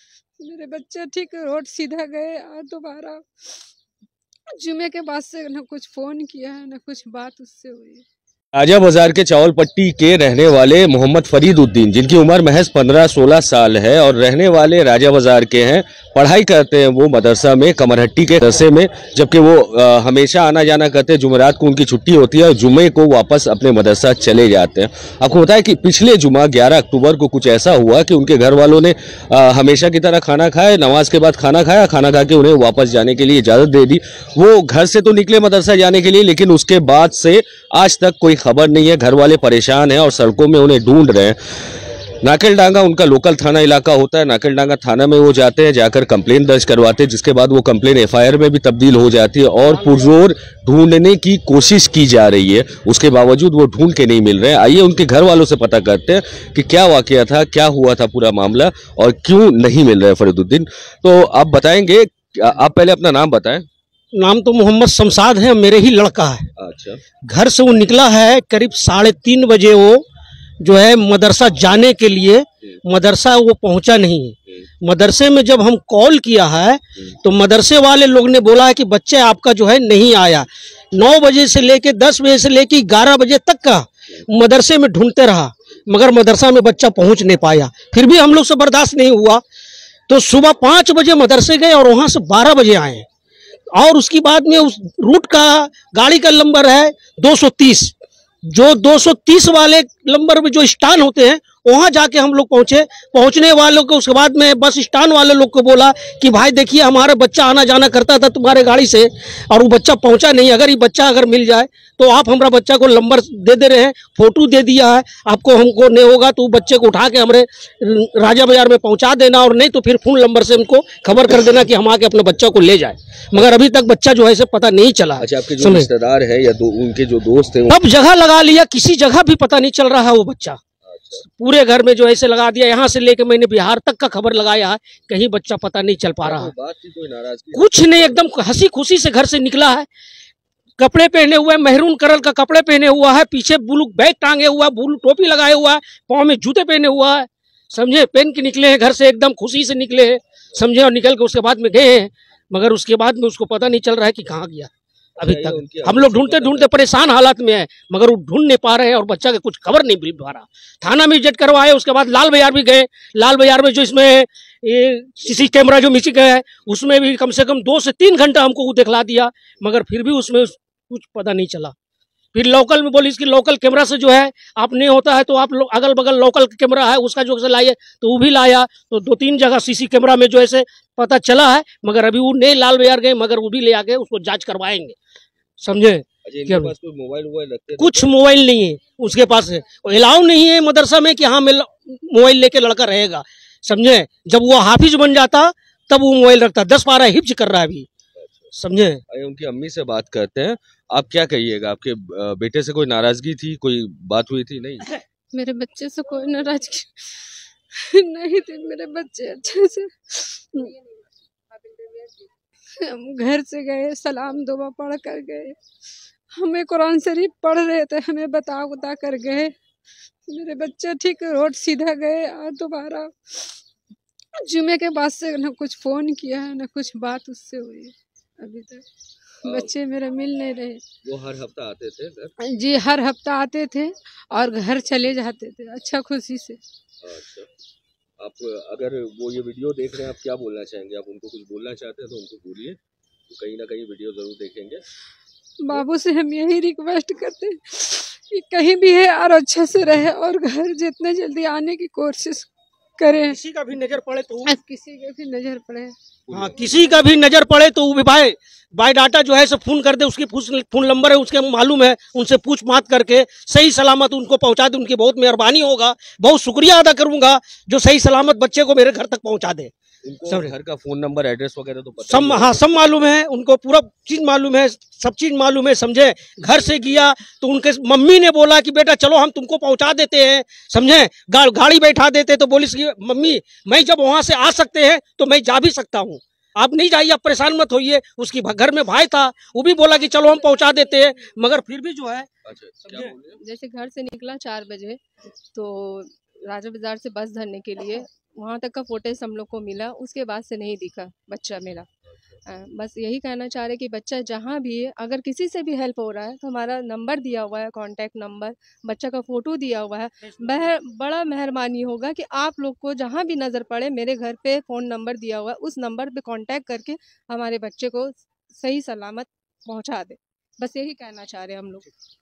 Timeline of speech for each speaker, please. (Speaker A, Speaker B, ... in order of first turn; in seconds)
Speaker A: 0.4-3.6, 4.5-8.1, 205.3-210.7, 212.8-215.6, 216.3-219.5, 220.3-223.6, 224.4-228.8, 229.4-230.8, 232.4-236.6, 245.6-253.4, 254.4-255.9
Speaker B: 8.5-41.4, 42.2-63.7, 66.6-67.0, 125.2-127.8, 130.8-131.2, 136.2-138.2, 155.2-156.9, 186.2-188.1, 198.2-198.5, 199.1-204.9, 229.4-229.7, 231.0-232.3, 237.0-237.5, 238.2-242.8, 243.3-244.8, 256.3-256.7, 270.0-272.6, 292.4-293.4
Speaker C: 64.1-66.5, 67.3-70.0, 70.6-89.4, 90.1-93.1, 93.7-97.9, 98.5-125.9, 127.7-130.6, 131.2-136.5, 137.5-139.9, 140.8-171.7, 172.3-185.0, 185.6-186.7, 187.8-197.9, 198.5-199.0, 253.1-254.5, 256.3-269.7, 270.3-270.5, 272.1-292.3
Speaker D: 293.4-295.0, 295.5-301.9, 302.5-321.9